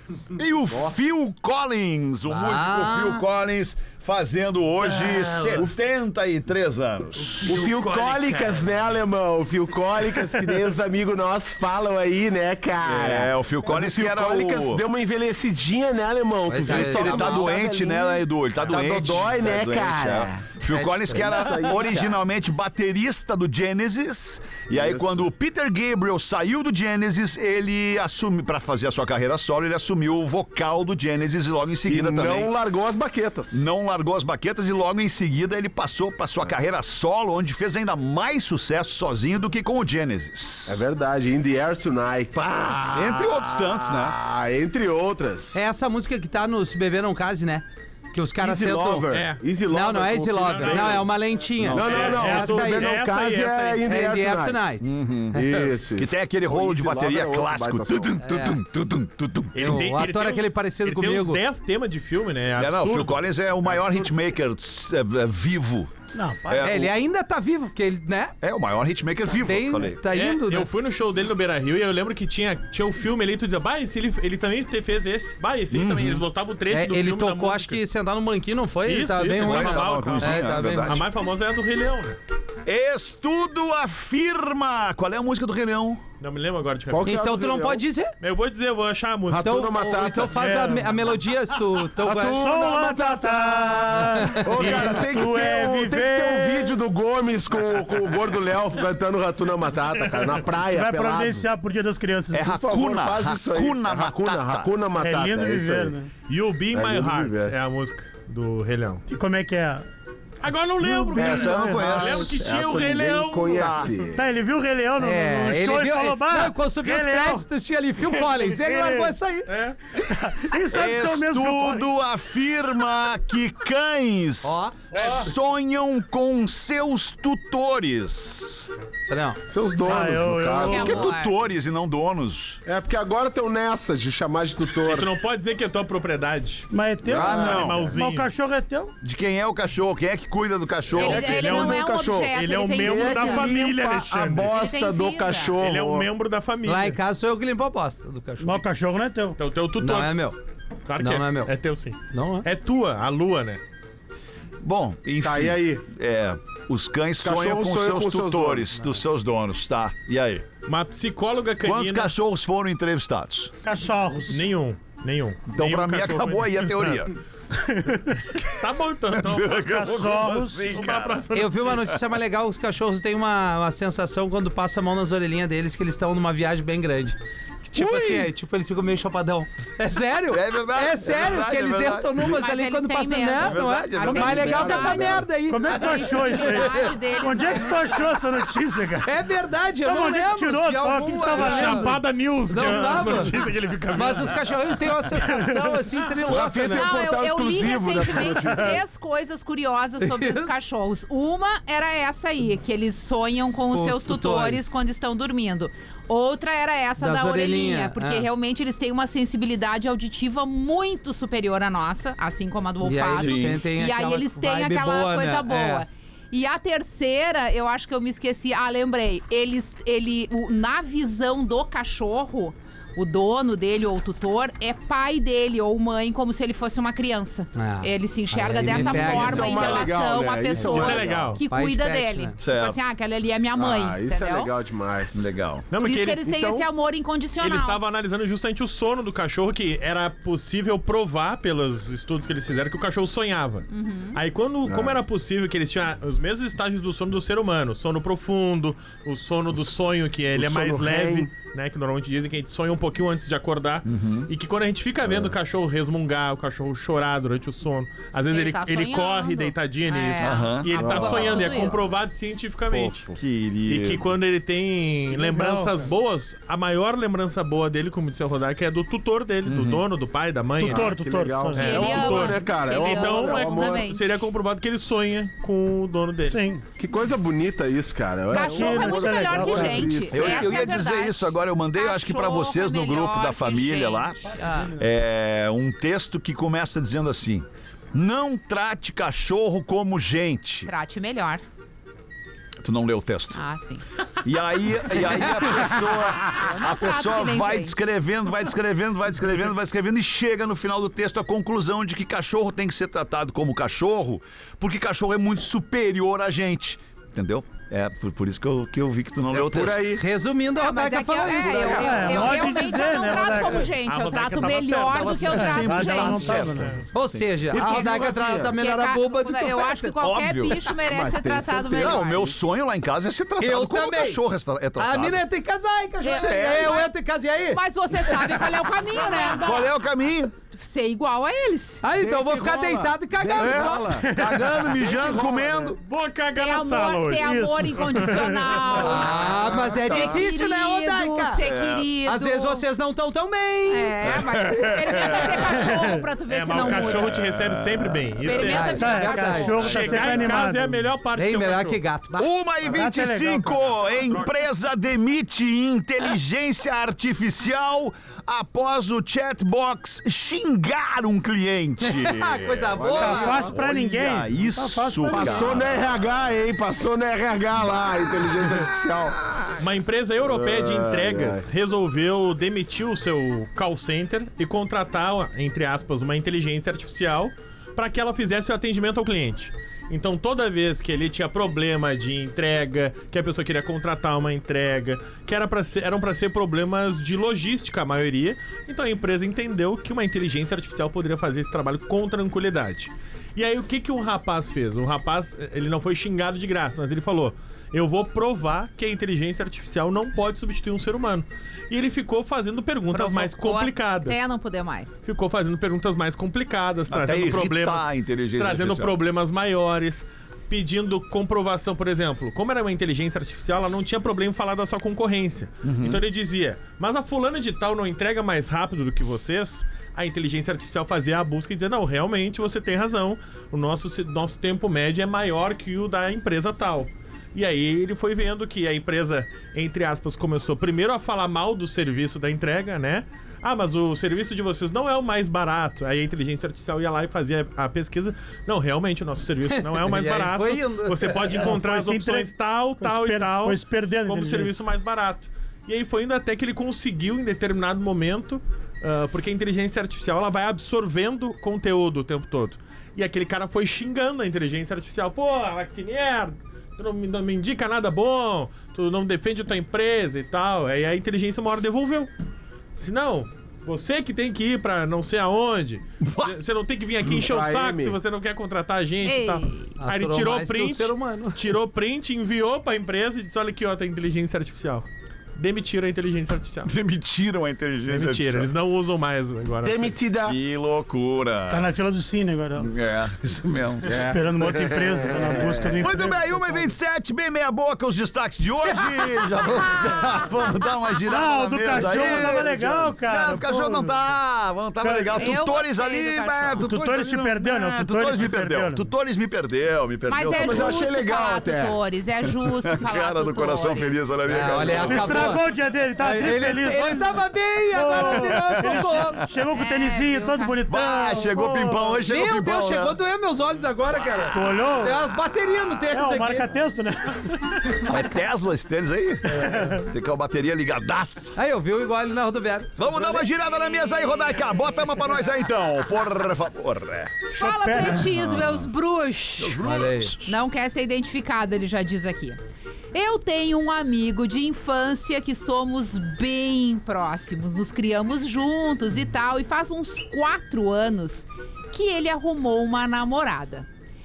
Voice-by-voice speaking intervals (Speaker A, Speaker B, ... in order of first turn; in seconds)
Speaker A: 0.3-7.5, 12.8-14.8, 16.6-32.5, 33.5-40.8, 42.3-44.1, 51.6-52.1, 54.8-55.4, 56.0-59.8, 62.5-65.9, 66.5-66.9, 68.4-70.0, 75.7-76.2, 79.4-81.0, 82.7-86.0, 102.3-104.7, 111.2-112.4, 113.5-113.9, 120.7-128.7, 130.7-132.6, 137.1-137.9, 139.0-141.4, 154.6-160.4, 161.6-163.5, 165.5-167.1, 169.2-171.7, 180.3-182.2, 183.4-184.7, 213.1-213.6, 228.7-229.9, 232.4-232.8, 235.1-235.6, 253.8-254.3, 260.2-261.4, 263.1-264.1, 269.4-269.8, 280.1-290.7, 292.6-293.4, 294.2-309.9, 314.8-317.3, 320.0-320.6, 321.8-325.2, 326.0-326.8, 329.3-330.3, 333.4-335.8, 339.0-340.2, 341.4-341.9, 346.8-348.1, 352.1-362.8, 363.5-365.8, 406.9-408.9, 415.6-416.0, 466.0-466.3, 476.6-478.5, 480.2-481.7, 482.6-484.1, 485.8-500.8, 502.4-505.4, 508.0-509.3, 510.7-513.0, 517.8-521.3, 522.8-527.2, 528.0-528.7, 529.4-530.3
Speaker B: 2.3-3.2, 16.5-17.6, 20.7-21.8, 45.5-49.1, 49.7-52.9, 53.9-55.7, 58.2-58.6, 59.6-61.4, 66.6-68.3, 69.4-70.7, 76.7-81.0, 87.0-88.1, 89.4-92.4, 94.3-94.6, 115.0-119.5, 124.4-124.8, 129.1-129.4, 146.6-148.6, 149.8-150.3, 151.0-151.5, 152.1-152.4, 171.3-177.2, 177.7-186.8, 189.0-193.3, 193.9-196.9, 200.0-200.6, 203.7-204.7, 207.0-208.3, 212.8-215.8, 227.6-229.8, 231.5-232.3, 310.0-312.0, 316.9-319.9, 323.4-324.2, 324.8-328.5, 331.8-333.9, 338.8-341.4, 342.0-344.2, 348.3-350.0, 351.1-352.3, 361.8-363.4, 439.7-441.4, 469.8-471.4, 504.3-509.2, 512.1-516.5, 521.4-522.7, 529.6-530.1
Speaker C: 7.2-8.6, 49.1-49.4, 50.4-51.1, 51.8-53.9, 59.5-64.1, 70.1-77.8, 78.8-82.2, 86.2-87.1, 88.2-89.5, 106.3-109.0, 110.4-113.9, 119.5-119.8, 134.8-138.3, 140.9-144.5, 145.6-147.0, 149.4-150.2, 150.9-153.6, 160.7-162.1, 164.3-167.1, 168.4-171.9, 191.3-194.5, 230.7-231.4, 235.7-236.7, 237.4-263.1, 263.6-270.9, 271.5-276.4, 313.7-315.4, 316.4-316.8, 335.8-338.1, 346.3-351.8, 369.6-404.2, 405.0-462.1, 462.8-476.7, 477.9-479.9
Speaker D: 7.4-20.5, 21.1-22.2, 24.7-25.2, 31.9-33.6, 40.7-45.6, 48.4-54.6, 55.3-58.1, 86.9-87.8, 89.3-90.4, 92.0-101.5, 102.4-105.9, 106.7-107.5, 112.0-114.3, 129.5-131.1, 132.7-135.1, 137.1-137.9, 141.0-146.1, 155.2-155.8, 157.2-158.7, 177.8-178.2, 184.3-185.3, 196.3-198.8, 228.7-231.4, 233.5-235.3, 244.7-245.0, 250.3-251.3, 255.0-255.3, 260.7-261.9, 262.8-263.1, 270.6-273.9, 276.8-280.6, 309.3-310.0, 311.4-312.3, 317.5-318.5, 320.8-322.3, 331.9-334.1, 334.9-335.7, 362.7-363.6, 365.1-369.5, 370.3-371.4, 467.1-468.0, 479.6-480.4, 483.9-485.5, 491.9-492.7, 500.3-501.8
Speaker E: 66.1-66.9, 90.3-91.0, 92.2-96.7, 100.7-102.5, 105.0-106.1, 109.1-109.8, 110.7-112.0, 114.2-117.5, 118.1-119.2, 120.0-121.9, 124.9-125.2, 129.8-131.1, 136.7-138.9, 148.4-149.4, 163.6-164.5, 167.7-168.2, 169.7-170.7, 185.4-189.1, 189.8-193.4, 195.2-195.8, 265.1-265.7, 270.6-272.0, 276.2-276.6, 278.3-280.1, 311.7-313.7, 315.3-316.8, 334.0-334.9, 337.2-338.6, 345.5-346.0, 348.8-350.9, 352.6-353.6, 362.9-365.6, 441.4-444.6, 481.5-482.7, 483.9-486.6, 491.1-493.9, 494.8-495.2, 496.6-498.9, 504.8-512.0, 514.3-515.0, 515.9-517.8, 519.3-519.8, 527.3-528.1
Speaker F: 130.6-131.3, 141.0-143.5, 144.5-145.6, 182.2-188.0, 196.7-234.5, 235.8-237.8, 243.7-244.2, 258.3-261.9, 271.5-274.2, 278.3-284.7, 290.6-291.4, 293.3-293.8, 296.2-297.8, 310.6-316.4, 317.7-317.9, 318.5-322.2, 326.0-326.9, 327.5-329.6, 330.5-331.8, 336.4-342.6, 343.7-347.1, 348.2-349.8, 402.9-404.9, 469.0-469.7, 495.1-496.6, 500.1-504.3, 509.5-510.6, 523.3-524.9, 527.3-529.7, 530.2-532.4, 532.9-543.6